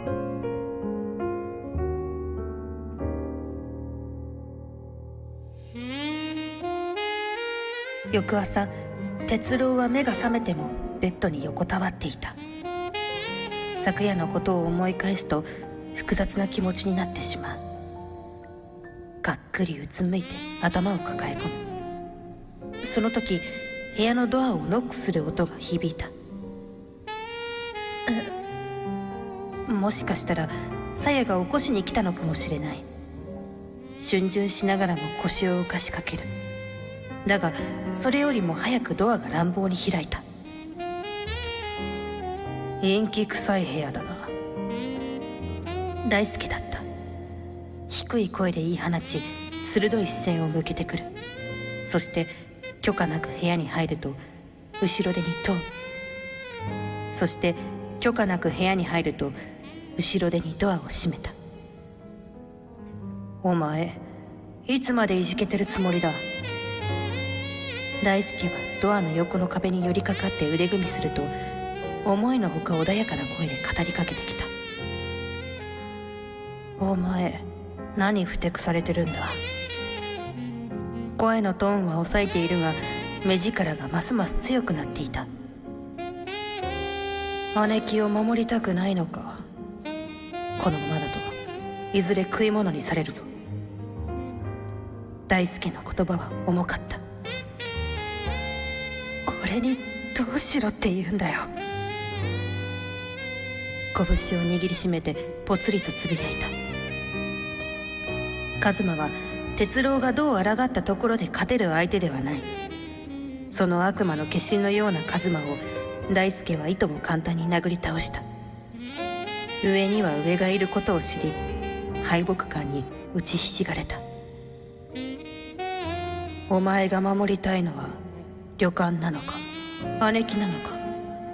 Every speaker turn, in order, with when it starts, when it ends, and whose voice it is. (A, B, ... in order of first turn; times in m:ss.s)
0:08.1-0:08.7 A
0:09.3-0:12.4 A
0:13.8-0:17.6 A
0:19.2-0:21.6 A
0:22.8-0:26.1 A
0:29.7-0:32.8 A
0:34.0-0:36.3 A
0:37.2-0:40.2 A
0:42.8-0:44.3 A
0:46.1-0:46.8 A
0:47.9-0:51.1 A
0:51.8-0:54.2 A
0:54.8-0:55.6 A
0:57.1-0:59.4 A
1:00.0-1:01.3 A
1:03.4-1:04.0 A
1:04.7-1:06.2 A
1:08.0-1:11.3 A
1:12.0-1:14.5 A
1:16.8-1:17.4 A
1:18.0-1:19.4 A
1:21.2-1:25.3 A
1:27.5-1:29.4 A
1:30.6-1:31.3 A
1:31.9-1:33.3 A
1:35.3-1:37.0 A
1:39.3-1:41.5 A
1:43.9-1:46.5 A
1:48.6-1:52.5 A
1:53.5-1:58.2 A
1:59.6-2:01.4 A
2:02.0-2:04.0 A
2:06.5-2:08.0 A
2:08.6-2:09.4 A
2:10.0-2:10.8 A